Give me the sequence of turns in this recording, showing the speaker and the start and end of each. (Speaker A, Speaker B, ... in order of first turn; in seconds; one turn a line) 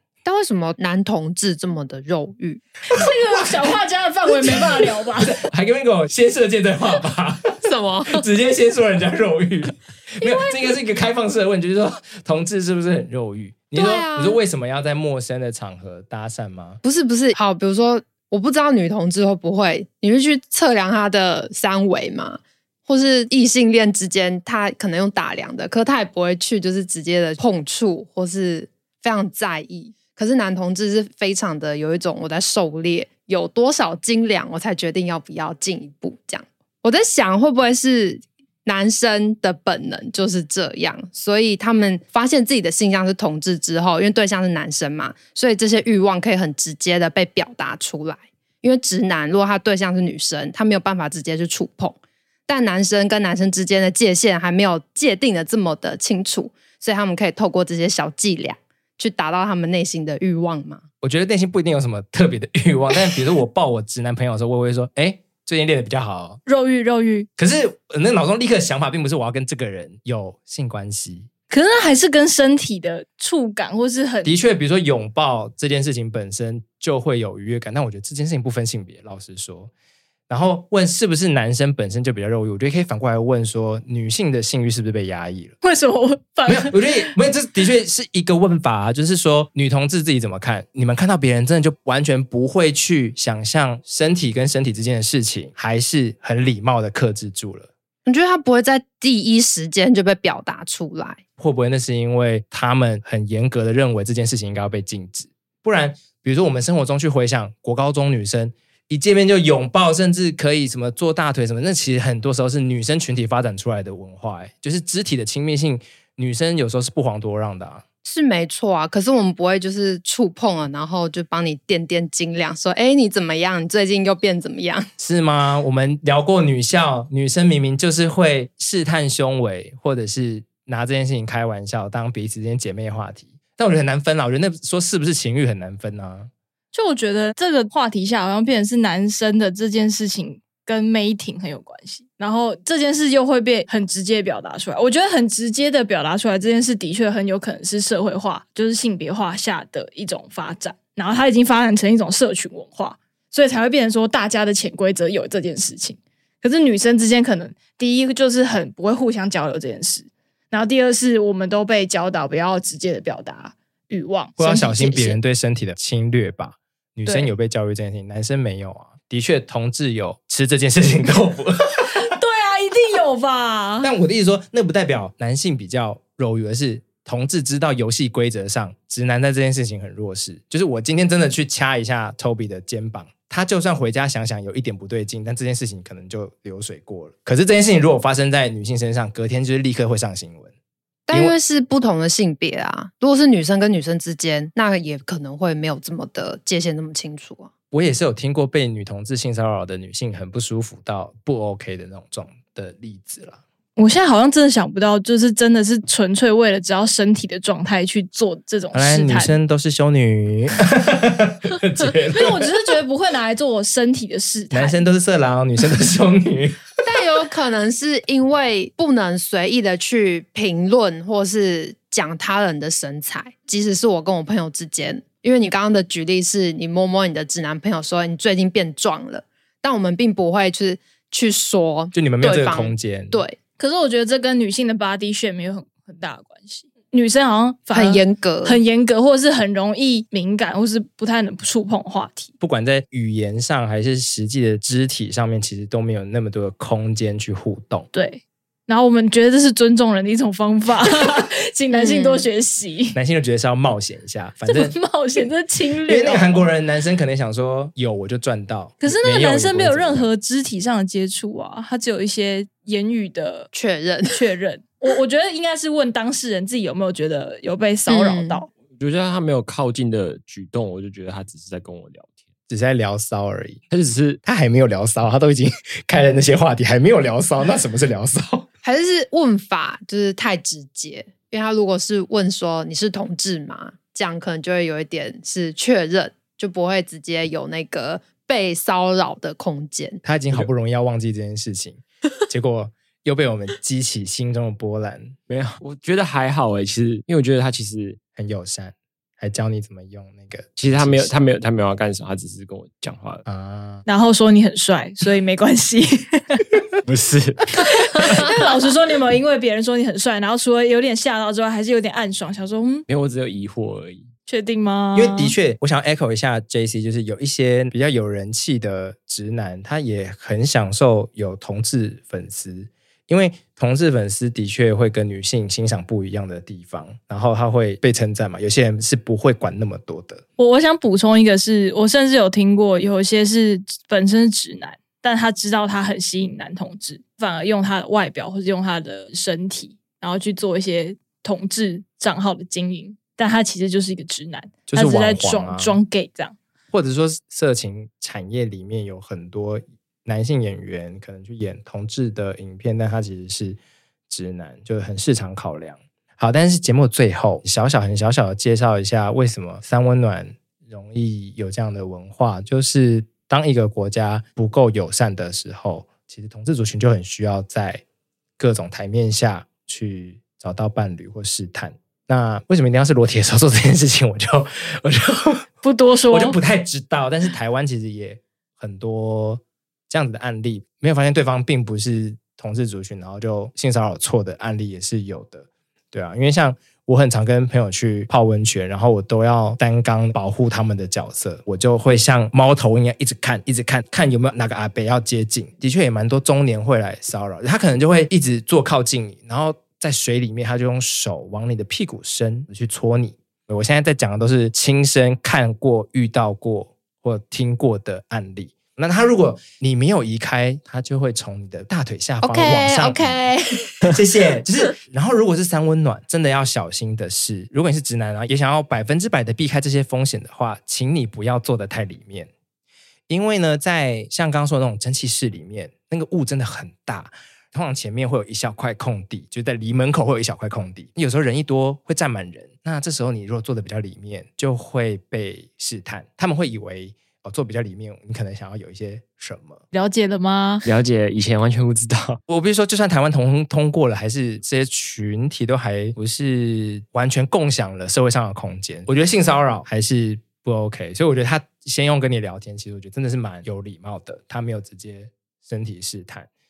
Speaker A: 0.2-2.6
Speaker B: 2.9-5.4
Speaker C: 2.9-3.5
Speaker C: 4.3-16.8
Speaker A: 7.6-8.3
Speaker B: 10.2-10.7
Speaker A: 13.7-14.4
Speaker A: 16.8-60.9
Speaker C: 61.0-66.4
Speaker B: 66.5-67.3
Speaker C: 67.4-71.3
Speaker B: 71.5-74.3
Speaker C: 74.2-79.7
Speaker C: 80.3-85.5
Speaker B: 85.6-87.1
Speaker C: 86.5-97.7
Speaker A: 98.1-101.2
Speaker C: 101.4-117.8
Speaker A: 118.0-124.9
Speaker C: 125.0-136.3
Speaker B: 136.7-164.4
Speaker C: 164.4-172.0
Speaker A: 164.4-165.2
Speaker B: 167.1-167.3
Speaker B: 171.9-173.9
Speaker C: 173.8-190.5
Speaker A: 191.1-197.5
Speaker C: 191.1-191.4
Speaker C: 197.7-203.4
Speaker B: 203.8-209.3
Speaker C: 208.7-212.5
Speaker B: 212.1-214.8
Speaker C: 214.5-216.7
Speaker A: 216.8-233.4
Speaker C: 231.9-233.2
Speaker B: 233.6-242.3
Speaker A: 237.7-238.6
Speaker C: 242.4-247.9
Speaker B: 247.9-253.0
Speaker A: 251.7-252.3
Speaker C: 252.9-254.8
Speaker B: 254.5-256.5
Speaker C: 255.9-260.1
Speaker B: 258.8-263.5
Speaker A: 263.5-264.2
Speaker B: 264.1-268.5
Speaker A: 267.9-268.4
Speaker D: 268.8-272.1
Speaker C: 272.5-273.6
Speaker D: 273.7-274.2
Speaker C: 274.2-278.5
Speaker A: 278.6-290.0
Speaker C: 290.0-295.2
Speaker D: 295.3-298.0
Speaker C: 298.2-301.1
Speaker D: 300.6-303.2
Speaker C: 303.2-303.9
Speaker B: 303.9-306.4
Speaker D: 306.9-308.3
Speaker B: 307.9-312.9
Speaker D: 312.9-314.1
Speaker B: 314.3-315.4
Speaker C: 314.9-330.2
Speaker B: 330.4-346.4
Speaker C: 344.7-345.8
Speaker C: 346.7-353.6
Speaker C: 354.1-367.8
Speaker C: 368.4-375.5
Speaker B: 375.6-376.4
Speaker C: 376.1-413.2
Speaker A: 412.2-414.0
Speaker C: 413.8-422.3
Speaker C: 423.1-439.6
Speaker B: 439.7-440.6
Speaker D: 440.6-442.2
Speaker C: 442.3-456.3